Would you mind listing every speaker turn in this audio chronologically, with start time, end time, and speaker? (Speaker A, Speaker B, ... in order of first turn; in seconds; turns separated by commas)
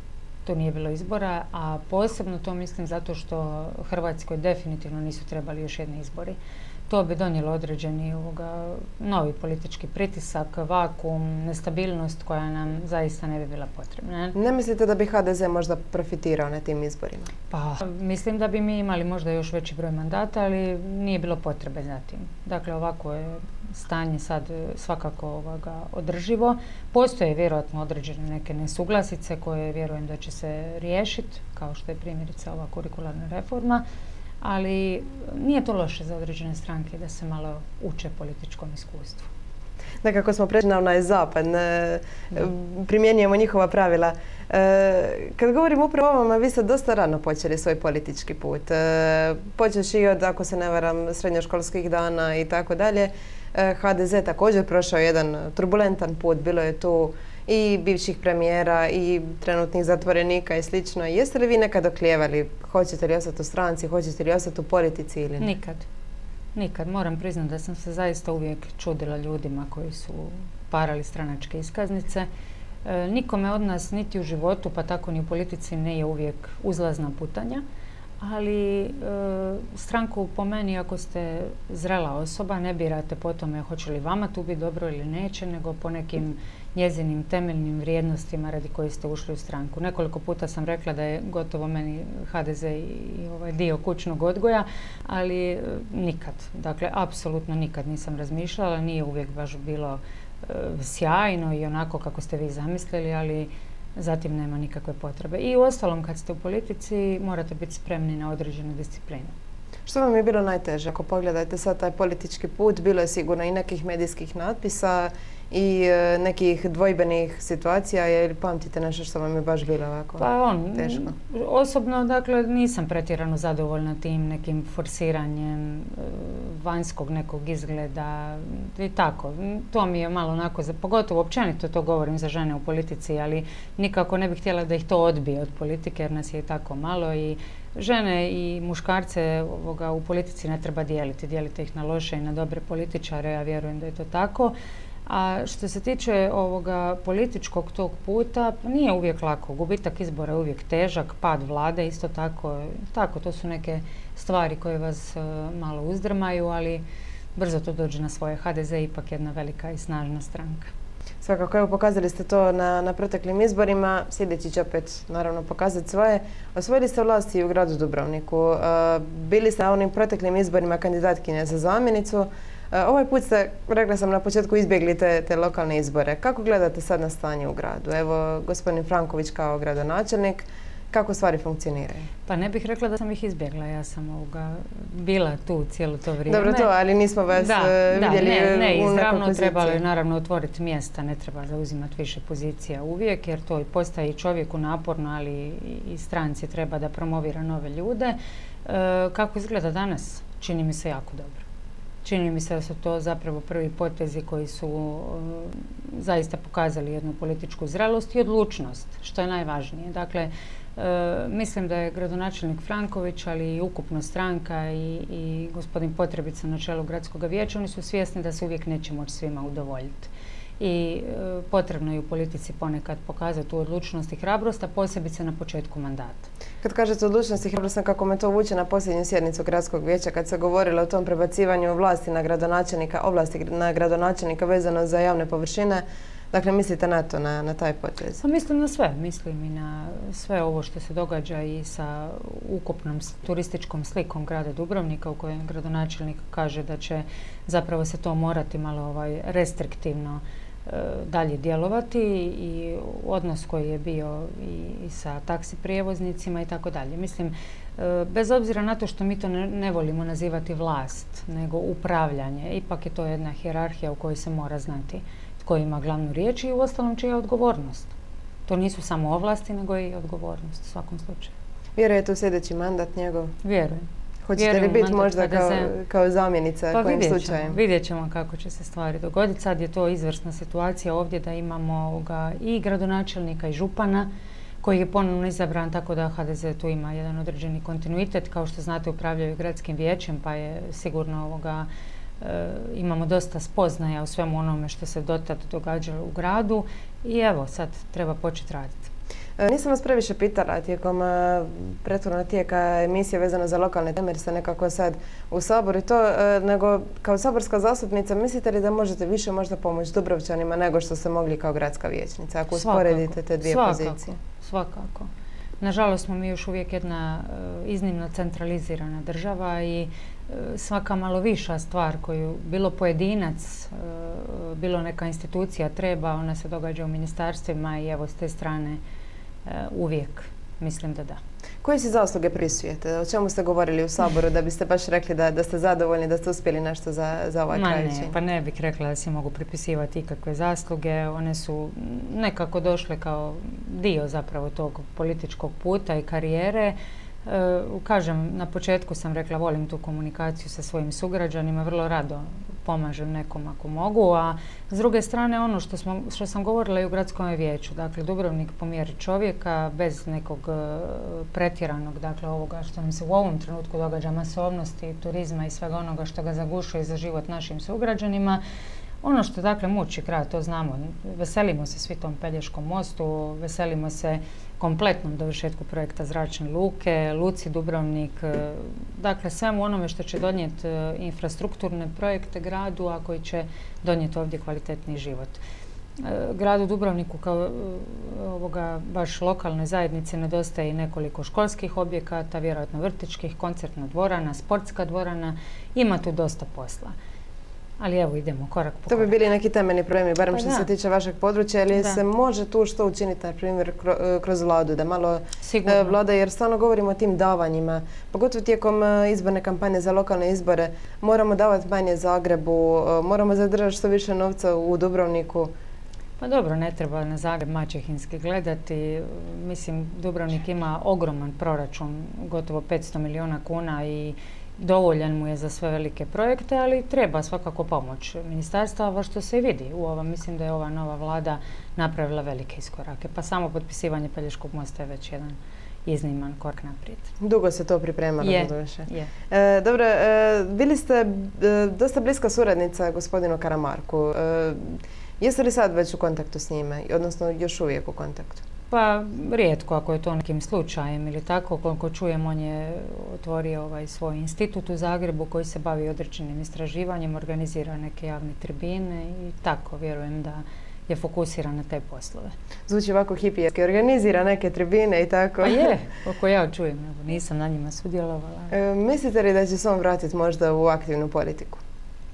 Speaker A: 0.5-6.4, Speaker A: 6.9-14.4, Speaker B: 14.3-17.3, Speaker A: 17.5-33.8, Speaker A: 34.4-39.3, Speaker B: 40.0-65.5, Speaker A: 65.4-65.9, Speaker A: 66.5-72.3, Speaker A: 72.8-77.6, Speaker A: 78.2-109.3, Speaker B: 109.9-121.1, Speaker A: 120.2-144.6, Speaker A: 145.1-156.8, Speaker A: 157.4-160.7, Speaker B: 161.2-182.1, Speaker A: 182.3-186.7, Speaker B: 186.3-189.8, Speaker A: 187.3-201.4, Speaker A: 202.0-226.3, Speaker B: 226.6-238.2, Speaker A: 238.2-267.9, Speaker A: 268.5-271.3, Speaker B: 271.8-273.4, Speaker A: 273.4-275.7, Speaker B: 274.2-277.6, Speaker A: 276.7-284.1, Speaker A: 284.6-291.7, Speaker A: 292.2-298.9, Speaker B: 299.4-314.2, Speaker A: 312.5-315.1, Speaker A: 315.6-328.8, Speaker A: 329.5-331.2, Speaker B: 331.6-338.1, Speaker A: 337.5-368.4, Speaker A: 369.0-385.4, Speaker A: 386.0-396.9, Speaker A: 397.8-399.2, Speaker B: 398.9-415.5, Speaker A: 400.3-400.7, Speaker A: 405.4-406.0, Speaker A: 416.2-437.1, Speaker B: 437.2-448.4, Speaker A: 438.2-439.1, Speaker A: 448.7-462.4, Speaker B: 462.7-465.7, Speaker A: 465.4-468.6, Speaker B: 468.5-471.6